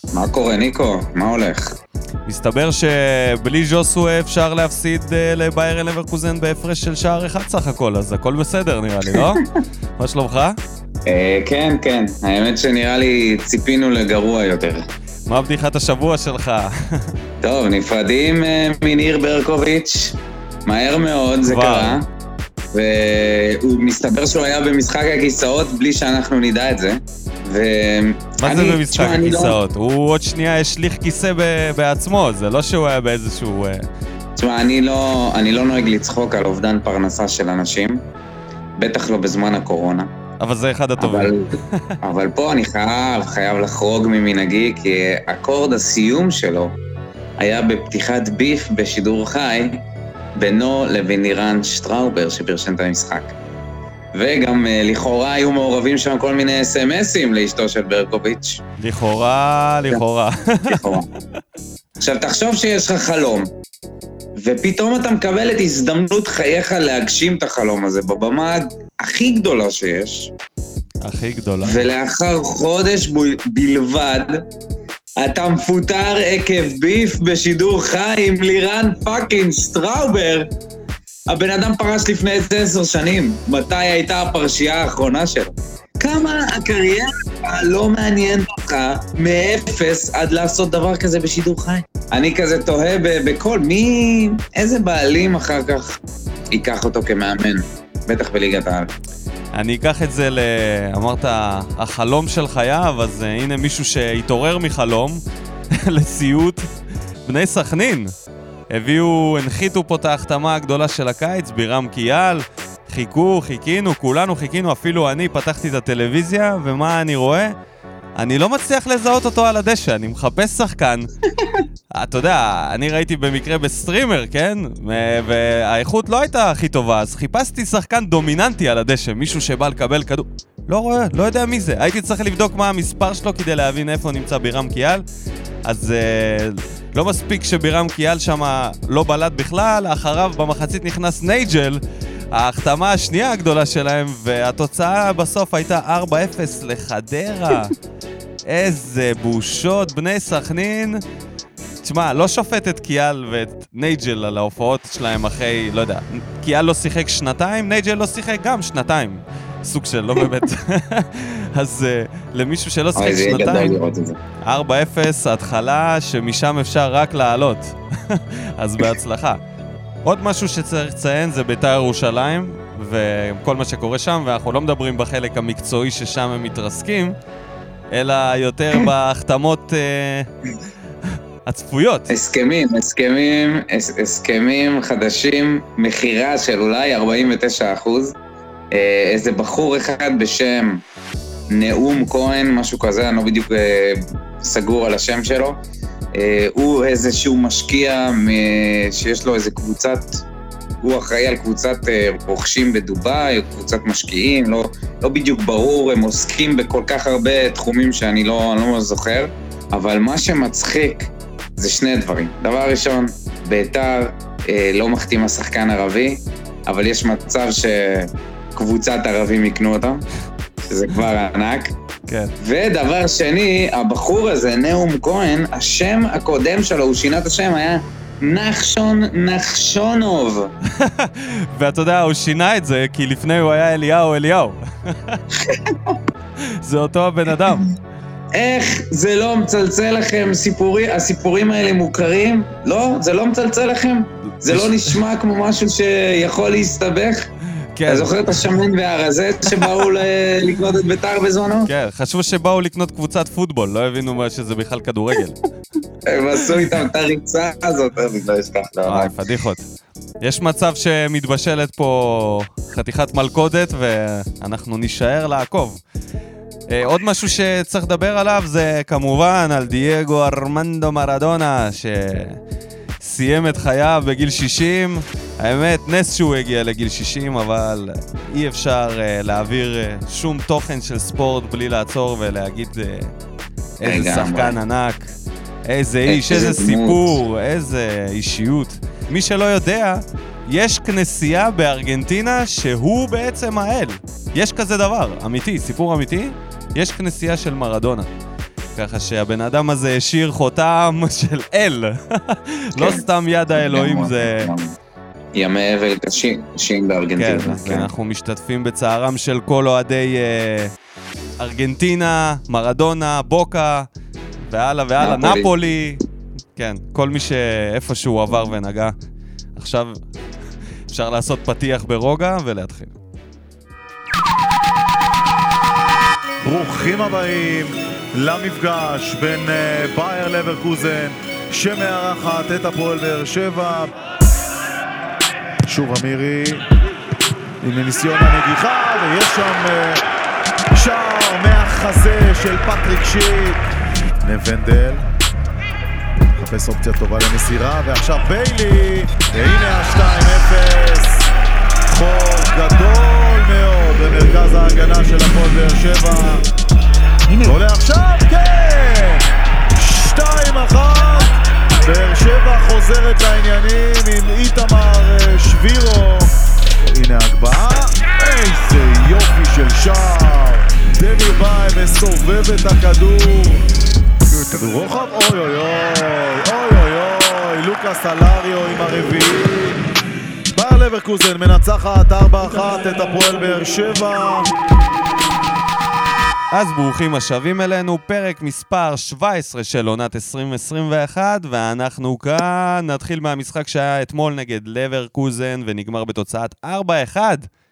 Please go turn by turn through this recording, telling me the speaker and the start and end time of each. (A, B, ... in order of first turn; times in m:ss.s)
0:00.1-0:01.8 A
0:02.2-0:09.4 B
0:09.1-0:09.5 A
0:10.0-0:10.6 B
0:11.0-0:14.8 A
0:15.3-0:17.1 B
0:17.4-0:22.0 A
0:21.4-0:22.0 B
0:22.7-0:29.6 A
0:28.4-0:33.8 B
0:34.4-0:38.0 A
0:38.8-0:40.1 A
0:40.4-0:42.0 B
0:41.0-0:46.7 A
0:47.4-0:49.8 A
0:50.4-0:53.4 A
0:54.1-0:58.6 A
0:58.8-1:00.8 B
1:00.7-1:01.1 A
1:02.0-1:03.5 A
1:04.4-1:10.3 A
1:11.0-1:11.8 B
1:11.6-1:14.4 A
1:15.2-1:20.5 A
1:21.3-1:36.0 A
1:36.5-1:38.9 A
1:39.6-1:45.2 B
1:45.7-1:46.6 B
1:47.2-1:48.1 B
1:48.7-1:57.5 B
1:58.2-2:01.1 B
2:01.9-2:15.0 B
2:15.6-2:21.8 B
2:22.3-2:27.7 B
2:28.5-2:31.0 B
2:31.8-2:43.8 B
2:43.0-2:44.2 A
2:44.4-2:49.4 B
2:50.0-2:57.2 B
2:57.9-3:00.3 B
3:01.4-3:02.1 B
3:02.1-3:08.1 A
3:08.7-3:10.8 A
3:11.5-3:15.6 A
3:16.1-3:20.2 A
3:20.8-3:40.0 A
3:40.7-3:41.7 A
3:42.4-3:50.5 A
3:50.7-3:55.2 B
3:55.4-3:56.0 A
3:56.6-3:57.7 B
3:58.3-4:07.3 A
4:04.3-4:05.0 B
4:07.8-4:08.5 B
4:07.9-4:11.7 A
4:09.5-4:09.7 B
4:11.7-4:15.4 B
4:16.0-4:19.1 A
4:18.8-4:19.6 B
4:20.2-4:25.8 B
4:26.7-4:32.4 B
4:33.0-4:43.1 B
4:43.8-4:45.1 B
4:43.8-4:44.6 A
4:45.7-4:58.1 B
4:46.1-4:47.2 A
4:58.7-5:04.5 B
5:02.8-5:04.7 A
5:05.3-5:07.9 A
5:07.2-5:10.7 B
5:11.4-5:13.9 B
5:14.5-5:16.0 B
5:15.0-5:15.6 A
5:16.6-5:18.9 B
5:19.6-5:20.0 B
5:20.9-5:23.0 B
5:26.4-5:33.9 C
5:35.7-5:36.6 C
5:37.6-5:40.0 C
5:40.7-5:43.6 C
5:44.2-5:45.0 C
5:46.4-5:51.3 C
5:51.9-5:56.4 C
5:57.4-6:06.3 C
6:06.8-6:13.6 C
6:14.3-6:19.8 C
6:20.5-6:24.5 C
6:26.5-6:37.5 B